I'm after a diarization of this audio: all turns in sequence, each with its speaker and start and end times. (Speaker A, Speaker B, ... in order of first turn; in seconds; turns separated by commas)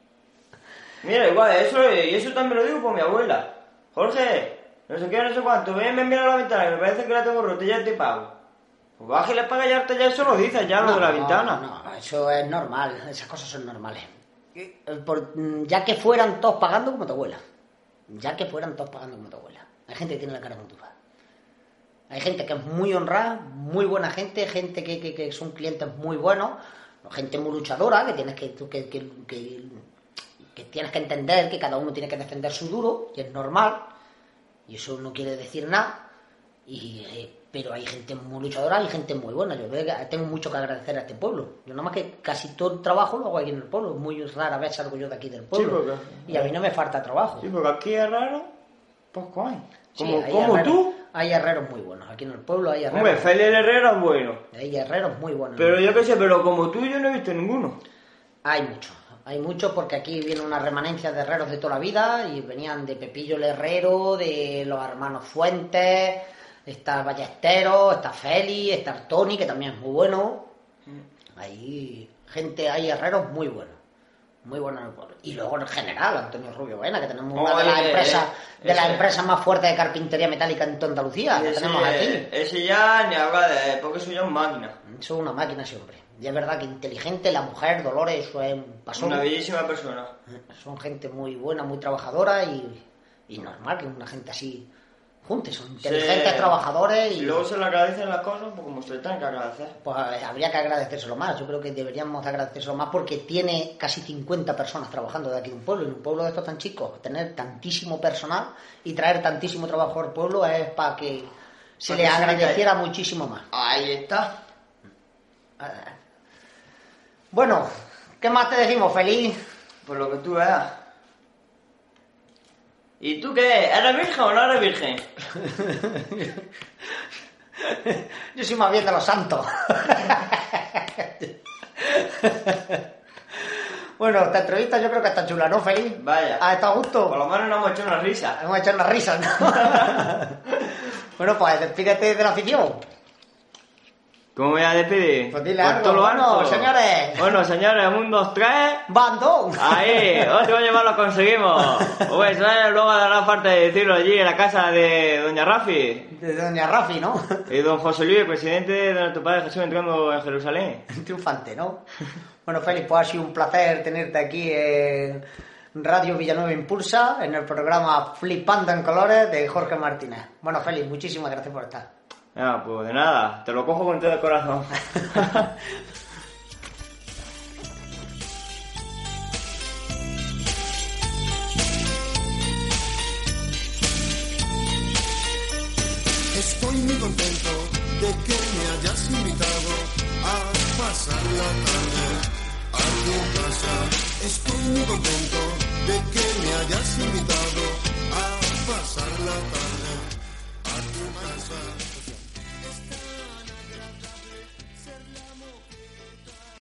Speaker A: 1.0-8.3, Speaker A: 9.0-11.6, Speaker B: 10.8-17.4, Speaker B: 18.1-20.9, Speaker B: 22.1-29.9, Speaker B: 30.5-33.9, Speaker B: 34.7-36.0, Speaker B: 36.6-47.5, Speaker A: 45.5-46.5, Speaker A: 47.4-48.5, Speaker A: 49.1-50.9, Speaker B: 50.0-53.3, Speaker A: 52.9-54.4, Speaker B: 54.5-56.0, Speaker A: 55.6-57.8, Speaker B: 58.4-70.5, Speaker B: 71.4-73.8, Speaker B: 74.4-82.3, Speaker A: 77.3-79.0, Speaker A: 81.3-84.8, Speaker B: 84.8-89.2, Speaker A: 89.0-90.1, Speaker B: 90.5-94.7, Speaker B: 95.2-97.4, Speaker A: 95.8-96.5, Speaker A: 97.2-99.8, Speaker B: 99.8-113.5, Speaker A: 111.9-112.6, Speaker A: 113.5-114.3, Speaker B: 115.6-115.9, Speaker B: 117.3-119.4, Speaker A: 119.8-120.7, Speaker A: 123.0-125.1, Speaker B: 125.3-126.5, Speaker B: 127.6-132.8, Speaker B: 133.3-137.2, Speaker A: 136.0-136.4, Speaker A: 137.1-138.4, Speaker B: 138.4-142.8, Speaker A: 139.6-139.9, Speaker A: 144.3-148.8, Speaker B: 145.3-147.3, Speaker B: 148.9-150.3, Speaker A: 149.6-156.1, Speaker B: 151.8-152.1, Speaker B: 156.1-157.4, Speaker A: 157.5-160.8, Speaker B: 160.9-161.8, Speaker B: 162.4-165.2, Speaker B: 165.7-171.9, Speaker A: 172.3-175.5, Speaker C: 186.3-206.0